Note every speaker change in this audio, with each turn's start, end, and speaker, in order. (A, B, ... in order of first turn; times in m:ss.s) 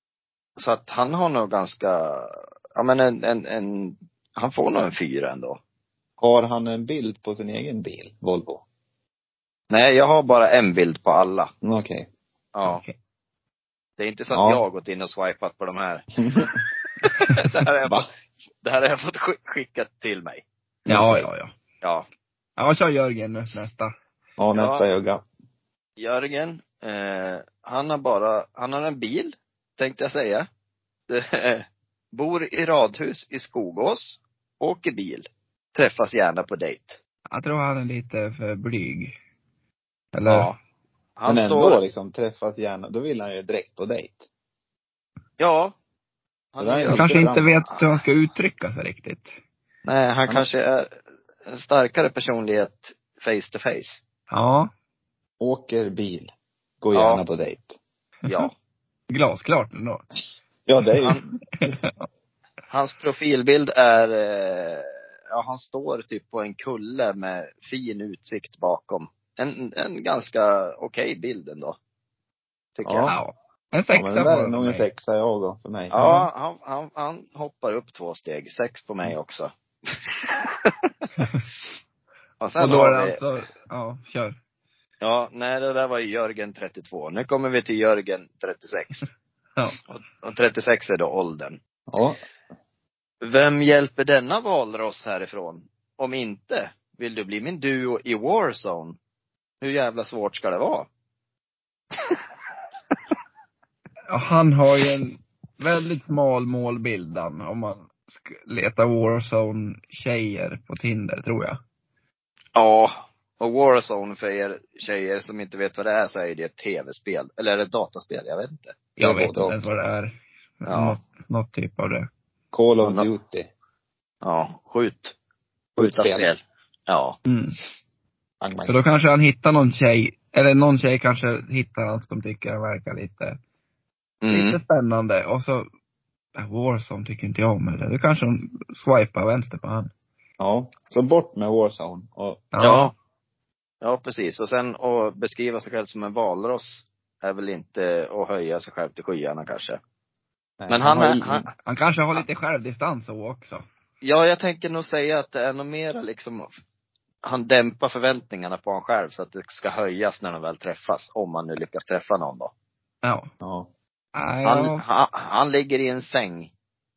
0:00.6-0:05.6 A
0:06.2-0:08.6 B
0:09.7-0:11.5 A
0:11.6-0:12.1 B
0:12.5-0:12.8 A
0:12.6-0:13.0 C
0:14.0-0:16.5 A
0:14.3-0:14.6 B
0:16.2-0:16.6 B
0:17.0-0:18.1 A
0:18.6-0:20.4 A
0:20.9-0:21.5 C
0:20.9-0:21.3 B
0:21.8-0:22.1 A
0:22.6-0:23.9 C
0:24.4-0:25.2 B
0:24.5-0:24.8 A
0:26.0-0:30.5 A
0:31.1-0:37.0 A
0:37.3-0:39.1 C
0:40.1-0:40.5 C
0:40.3-0:40.6 A
0:41.2-0:41.8 A
0:41.3-0:44.3 B
0:45.4-0:45.7 A
0:46.5-0:47.9 A
0:46.6-0:47.5 B
0:46.9-0:49.3 C
0:49.8-0:54.0 A
0:54.3-0:54.7 C
0:55.4-0:56.3 B
0:56.8-0:57.8 B
0:56.9-0:57.2 A
0:59.1-1:00.0 C
1:00.7-1:01.8 B
1:01.6-1:01.9 C
1:02.7-1:11.8 A
1:12.8-1:13.1 A
1:12.8-1:13.2 B
1:13.0-1:14.9 C
1:13.9-1:16.0 B
1:15.9-1:20.8 A
1:16.0-1:16.3 C
1:22.4-1:23.2 A
1:22.6-1:24.4 C
1:25.0-1:29.0 A
1:29.9-1:31.6 A
1:31.9-1:32.2 B
1:33.2-1:39.0 A
1:39.6-1:40.9 A
1:44.1-1:51.6 C
1:52.6-1:58.8 A
1:59.0-2:02.1 C
1:59.0-1:59.7 B
2:00.7-2:01.0 A
2:02.5-2:03.5 B
2:04.2-2:05.1 A
2:05.8-2:06.3 B
2:05.8-2:07.2 A
2:07.2-2:07.6 C
2:08.4-2:08.7 B
2:08.7-2:13.4 C
2:14.2-2:14.6 A
2:14.3-2:15.6 C
2:16.4-2:19.9 C
2:20.4-2:22.5 B
2:22.5-2:22.9 C
2:22.6-2:22.9 A
2:23.8-2:29.8 A
2:30.6-2:31.5 B
2:30.7-2:31.4 A
2:31.6-2:33.6 C
2:34.0-2:36.5 A
2:37.2-2:42.5 A
2:43.0-2:43.3 C
2:43.4-2:43.7 B
2:44.1-2:44.8 C
2:44.4-2:46.5 A